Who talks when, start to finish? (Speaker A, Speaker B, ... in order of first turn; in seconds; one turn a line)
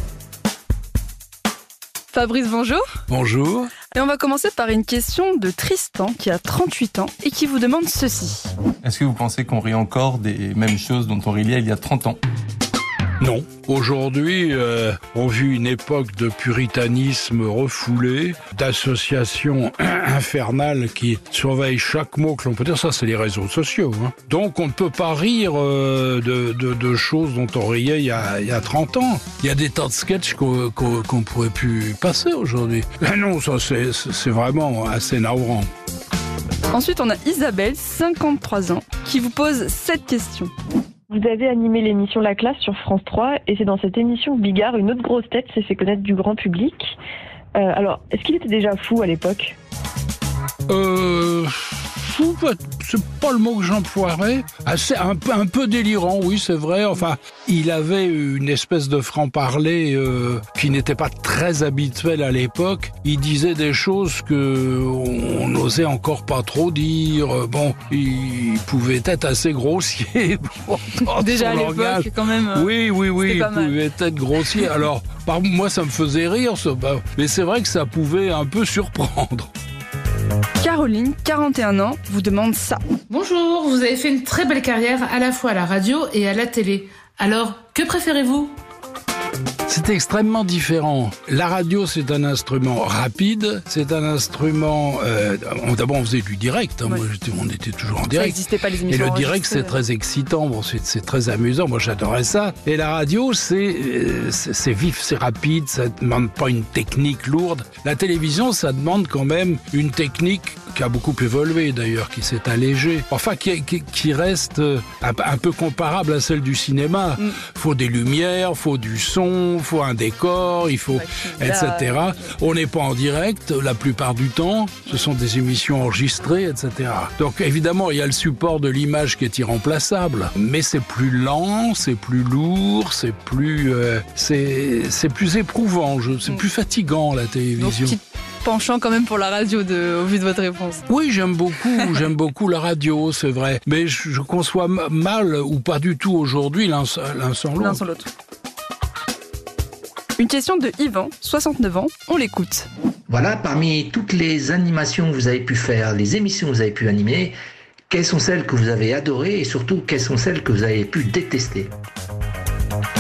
Speaker A: 2.1-2.8
Speaker B: 3.1-3.8
Speaker A: 3.9-8.5
Speaker C: 8.8-12.2
Speaker B: 13.2-35.7
Speaker A: 36.7-40.5
Speaker D: 41.1-46.9
Speaker D: 47.6-49.6
Speaker B: 50.7-79.5
Speaker A: 71.2-73.8
Speaker A: 80.6-82.8
Speaker E: 83.1-88.6
Speaker B: 89.7-138.0
Speaker A: 98.1-99.7
Speaker A: 120.9-122.2
Speaker A: 137.6-140.8
Speaker B: 140.9-147.8
Speaker A: 147.6-148.1
Speaker A: 150.2-152.7
Speaker F: 153.1-154.5
Speaker F: 157.9-159.5
Speaker F: 160.3-161.2